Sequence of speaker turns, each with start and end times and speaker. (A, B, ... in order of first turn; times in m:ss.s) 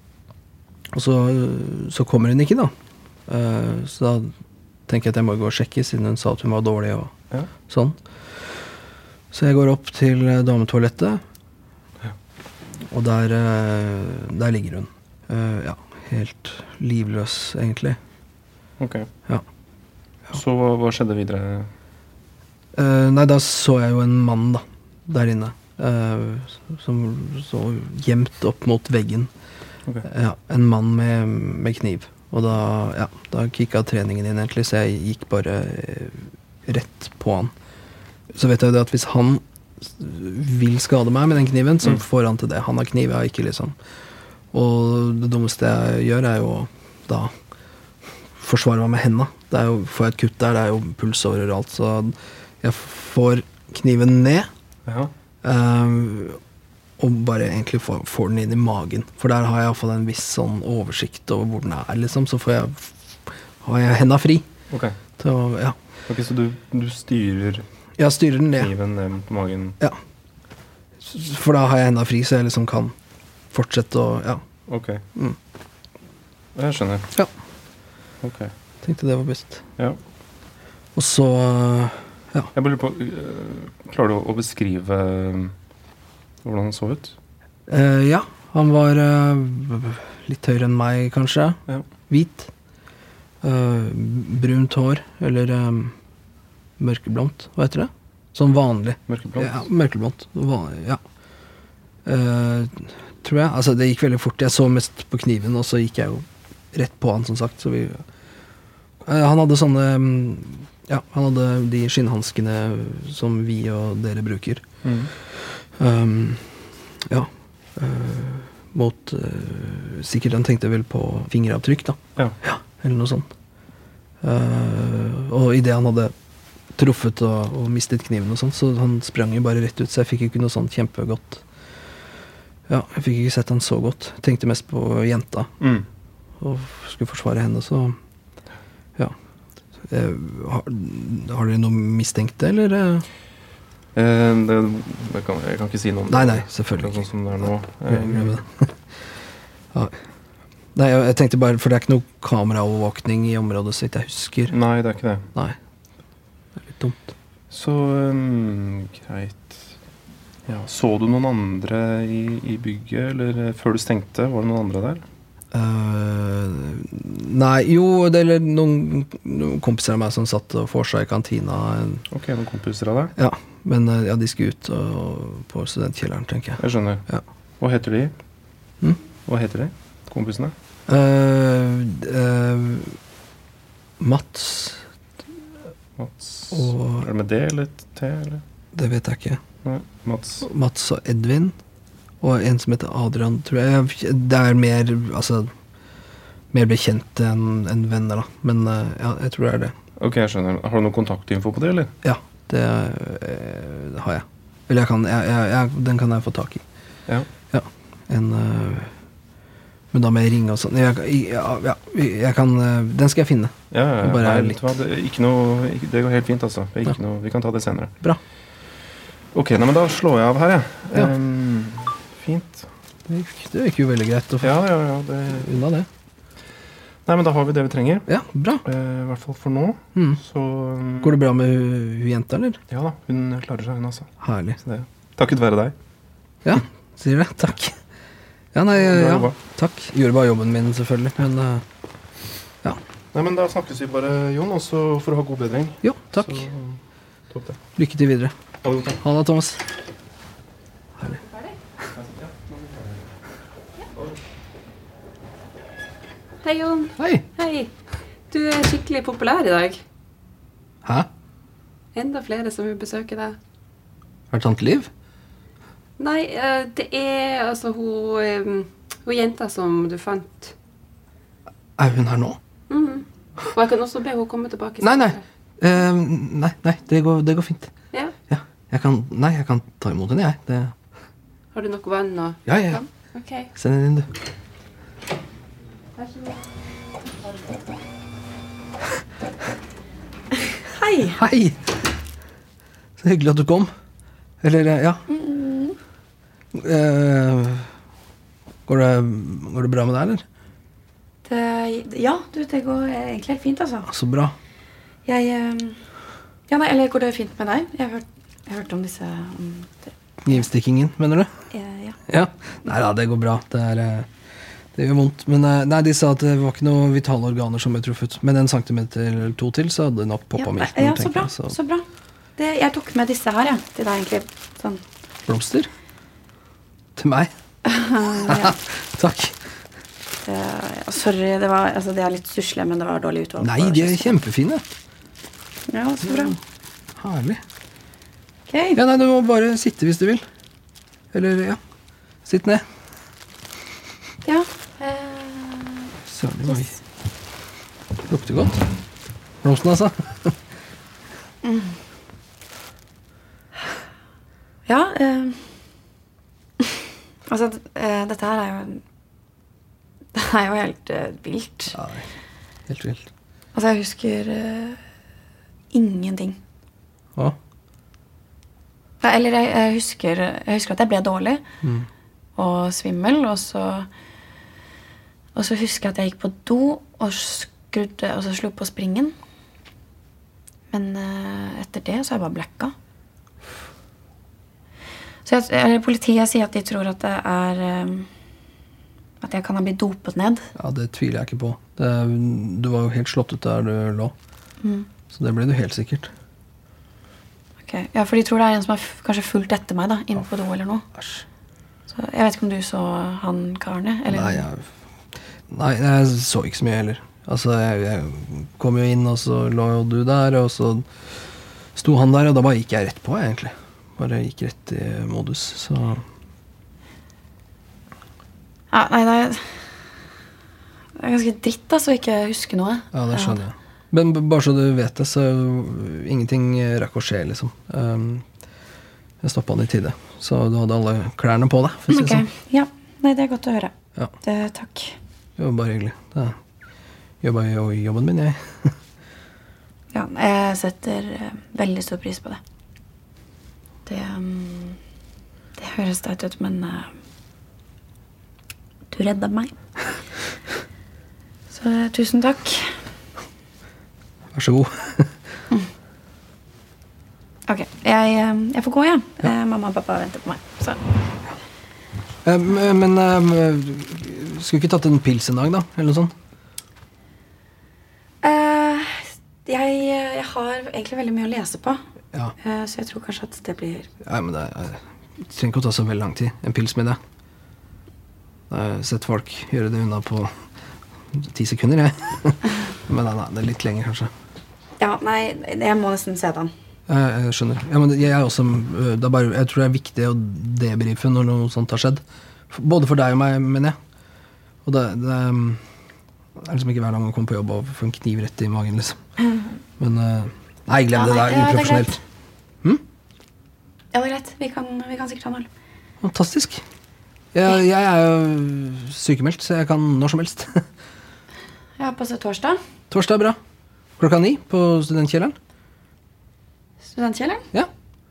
0:00.9-0:02.7 A
0:03.3-0:04.3 A
0:04.9-0:07.1 A
0:07.7-0:08.0 A
0:09.3-0:11.2 A
0:12.9-0:18.0 A
0:18.8-0:19.1 B
0:20.3-0:21.7 B
0:22.7-0:29.3 A
0:30.0-0:37.5 A
0:38.3-0:43.8 A
0:44.5-0:47.3 A
0:48.4-0:54.5 A
0:54.9-0:55.1 B
0:55.4-0:56.4 A
0:57.0-1:04.5 A
1:04.7-1:05.0 B
1:05.2-1:05.8 A
1:06.1-1:07.6 B
1:08.0-1:08.7 A
1:08.6-1:09.8 B
1:11.0-1:13.0 A
1:13.5-1:14.4 A
1:14.7-1:15.0 B
1:16.6-1:17.1 B
1:18.2-1:18.5 B
1:18.8-1:19.6 A
1:21.0-1:22.5 A
1:22.6-1:25.5 B
1:26.4-1:27.1 B
1:27.7-1:32.5 A
1:33.4-1:35.9 A
1:36.8-1:41.0 A
1:39.1-1:39.6 B
1:42.0-1:48.0 A
1:49.0-1:54.6 A
1:54.8-1:55.1 B
1:55.8-2:03.3 A
2:04.2-2:06.1 A
2:06.8-2:11.4 A
2:12.7-2:15.5 A
2:15.6-2:15.9 B
2:16.4-2:18.0 A
2:19.9-2:23.0 A
2:24.0-2:28.4 B
2:26.1-2:27.1 A
2:27.9-2:28.7 A
2:30.8-2:34.6 A
2:34.5-2:35.3 B
2:36.6-2:37.0 A
2:37.5-2:39.8 B
2:40.5-2:45.0 B
2:45.5-2:52.0 A
2:52.1-2:53.1 B
2:53.2-2:57.2 A
2:56.6-2:57.0 B
2:57.6-2:58.1 B
2:59.2-3:00.5 B
3:00.9-3:03.0 A
3:04.0-3:04.8 A
3:06.0-3:08.4 B
3:06.5-3:07.1 A
3:08.7-3:09.4 A
3:09.6-3:10.5 B
3:10.4-3:11.6 A
3:12.2-3:15.5 A
3:16.5-3:19.8 A
3:20.0-3:21.9 B
3:22.0-3:26.6 A
3:27.5-3:28.9 A
3:29.9-3:34.6 A
3:33.7-3:38.0 B
3:39.3-3:42.7 B
3:43.1-3:44.6 A
3:44.4-3:45.5 B
3:45.4-3:45.9 A
3:47.1-3:48.1 B
3:48.1-3:48.6 A
3:48.6-3:51.2 B
3:51.0-3:52.6 A
3:52.7-3:55.7 B
3:54.2-3:54.6 A
3:56.4-3:57.8 A
3:58.5-4:01.6 A
3:58.8-3:59.4 B
4:03.1-4:06.8 B
4:05.8-4:06.4 A
4:07.3-4:07.6 B
4:07.8-4:08.3 A
4:08.6-4:09.0 B
4:09.0-4:09.6 A
4:11.0-4:11.5 C
4:11.9-4:13.1 B
4:16.4-4:17.7 C
4:17.0-4:17.2 A
4:18.3-4:19.8 C
4:22.0-4:23.4 C
4:24.3-4:24.9 A
4:26.0-4:30.5 C
4:31.8-4:32.4 A
4:32.7-4:35.2 C
4:34.8-4:37.7 A
4:38.3-4:40.7 A
4:41.5-4:43.5 C
4:42.5-4:42.8 A
4:43.6-4:44.1 A
4:46.0-4:46.4 C
4:50.6-4:51.2 D
4:51.1-4:51.7 A
4:53.0-4:53.7 A
4:54.4-4:55.0 A
4:55.1-4:55.8 D
4:56.5-4:57.7 A
4:58.7-5:00.2 A
5:01.2-5:03.9 D
5:03.9-5:04.4 A
5:05.1-5:05.8 D
5:06.5-5:10.4 D
5:10.2-5:11.3 A
5:11.5-5:12.0 D
5:12.1-5:14.1 A
5:14.8-5:21.6 A
5:20.4-5:21.8 D
5:22.4-5:24.8 D
5:25.3-5:25.7 A
5:27.0-5:27.3 A
5:27.6-5:28.6 D
5:28.2-5:29.4 A
5:30.2-5:34.2 D
5:33.4-5:34.6 A
5:35.7-5:36.4 D
5:37.0-5:37.4 A
5:38.5-5:38.8 D
5:38.8-5:40.2 A
5:41.1-5:41.6 A
5:42.2-5:42.6 A
5:44.2-5:45.9 D
5:46.1-5:46.8 A
5:48.1-5:48.7 A
5:49.4-5:50.4 A
5:51.4-5:51.8 D
5:54.7-5:55.4 D
5:57.3-5:58.8 D
6:00.1-6:01.8 D
6:01.7-6:02.1 A
6:02.7-6:03.1 A
6:03.6-6:04.8 D
6:05.7-6:06.4 D
6:09.0-6:11.4 D
6:12.4-6:13.9 D
6:15.4-6:19.1 D
6:20.7-6:22.7 D
6:25.2-6:28.1 D
6:29.2-6:30.5 D
6:30.6-6:34.1 A
6:34.6-6:34.9 D
6:35.1-6:36.1 A
6:37.7-6:40.8 D
6:40.9-6:41.2 A
6:41.9-6:44.4 D
6:44.1-6:44.7 A
6:45.5-6:50.9 A
6:51.8-6:56.0 A
6:58.7-6:59.6 D
7:01.0-7:03.4 D
7:02.9-7:08.2 A
7:09.2-7:12.3 A
7:11.9-7:15.0 D
7:15.4-7:16.4 A
7:17.2-7:18.7 A
7:19.9-7:22.4 D
7:23.9-7:24.8 D
7:25.6-7:26.9 D
7:28.9-7:29.5 D
7:31.5-7:32.7 D
7:34.3-7:35.1 A
7:37.5-7:40.8 D
7:42.2-7:46.1 A
7:48.2-7:51.8 D
7:52.4-7:53.9 D
7:54.0-7:57.0 A
7:58.5-8:00.3 A
8:01.1-8:04.1 A
8:04.8-8:06.5 D
8:06.9-8:13.8 A
8:14.6-8:15.6 A
8:16.4-8:19.0 A
8:19.8-8:22.0 A
8:20.9-8:22.0 D
8:23.9-8:25.5 D
8:26.0-8:26.6 A
8:27.3-8:30.6 A
8:31.8-8:32.6 D
8:32.9-8:33.4 A
8:34.0-8:35.4 A
8:36.9-8:37.4 D